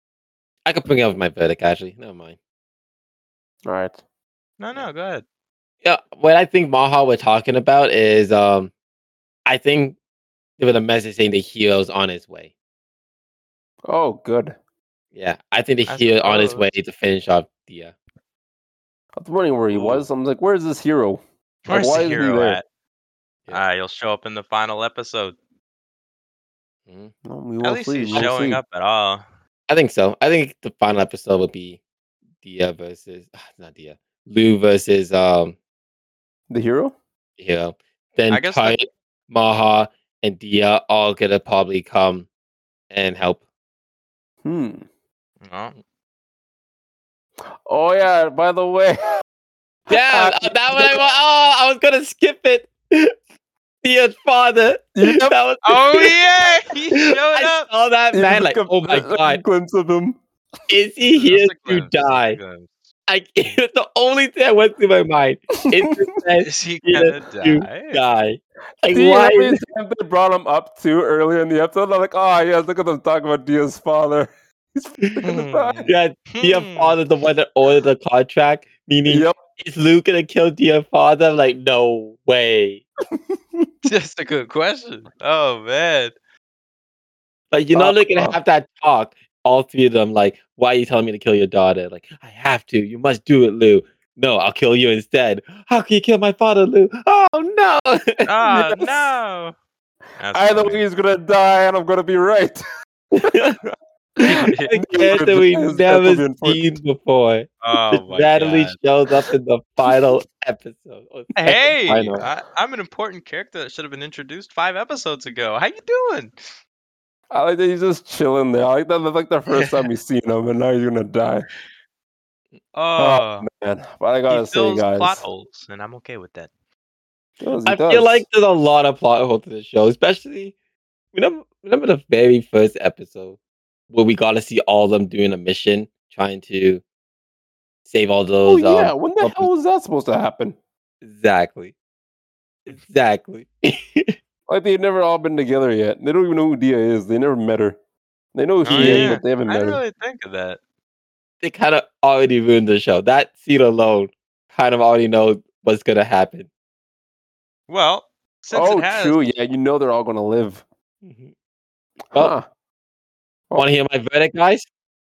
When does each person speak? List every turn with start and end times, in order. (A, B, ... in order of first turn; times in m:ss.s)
0:00.6-0:02.4 A
0:03.6-0:04.0 B
0:04.6-0:05.2 C
0:05.8-0:08.7 A
0:09.4-0:10.0 A
0:10.6-0:12.5 A
0:13.9-0:14.6 B
0:15.1-0:17.9 A
0:15.9-0:16.7 C
0:19.2-0:22.6 B
0:19.7-0:20.0 A
0:21.7-0:22.6 C
0:23.5-0:25.4 C
0:26.9-0:27.1 A
0:27.2-0:28.6 B
0:27.6-0:29.2 C
0:29.7-0:31.8 A
0:32.4-0:35.6 A
0:36.5-0:36.9 B
0:37.4-0:42.3 A
0:38.3-0:38.8 C
0:42.9-0:43.4 A
0:44.4-0:44.8 B
0:45.4-0:45.8 C
0:47.6-0:49.0 B
0:49.9-0:51.0 B
0:49.9-0:53.1 A
0:53.8-0:56.1 A
0:55.0-0:55.4 B
0:55.6-0:57.7 C
0:56.9-0:59.4 A
0:58.1-1:00.2 B
1:00.7-1:02.4 A
1:01.1-1:02.7 C
1:03.1-1:09.6 A
1:05.6-1:05.9 B
1:06.4-1:08.0 C
1:08.9-1:15.9 B
1:15.2-1:17.0 C
1:15.8-1:22.8 A
1:19.1-1:19.4 B
1:23.2-1:23.7 B
1:23.8-1:26.1 C
1:27.5-1:38.9 A
1:27.7-1:28.4 B
1:38.2-1:39.5 C
1:40.2-1:40.8 C
1:40.3-1:42.6 B
1:43.1-1:43.6 A
1:43.2-1:46.8 B
1:44.2-1:52.2 A
1:44.3-1:44.8 C
1:47.6-1:48.8 C
1:51.4-1:56.3 C
1:57.3-2:01.5 B
1:59.5-1:59.9 C
2:02.7-2:03.5 C
2:03.0-2:05.2 B
2:04.3-2:06.5 C
2:07.4-2:08.2 B
2:07.6-2:10.5 A
2:11.1-2:13.4 A
2:13.9-2:16.8 A
2:17.8-2:19.5 A
2:18.4-2:20.6 B
2:21.0-2:21.7 A
2:22.6-2:24.1 A
2:24.5-2:27.8 B
2:28.3-2:29.8 B
2:28.6-2:30.6 C
2:28.8-2:29.2 A
2:31.4-2:36.5 A
2:37.7-2:39.2 C
2:38.5-2:40.6 B
2:41.0-2:41.3 A
2:42.1-2:42.5 B
2:43.5-2:44.7 A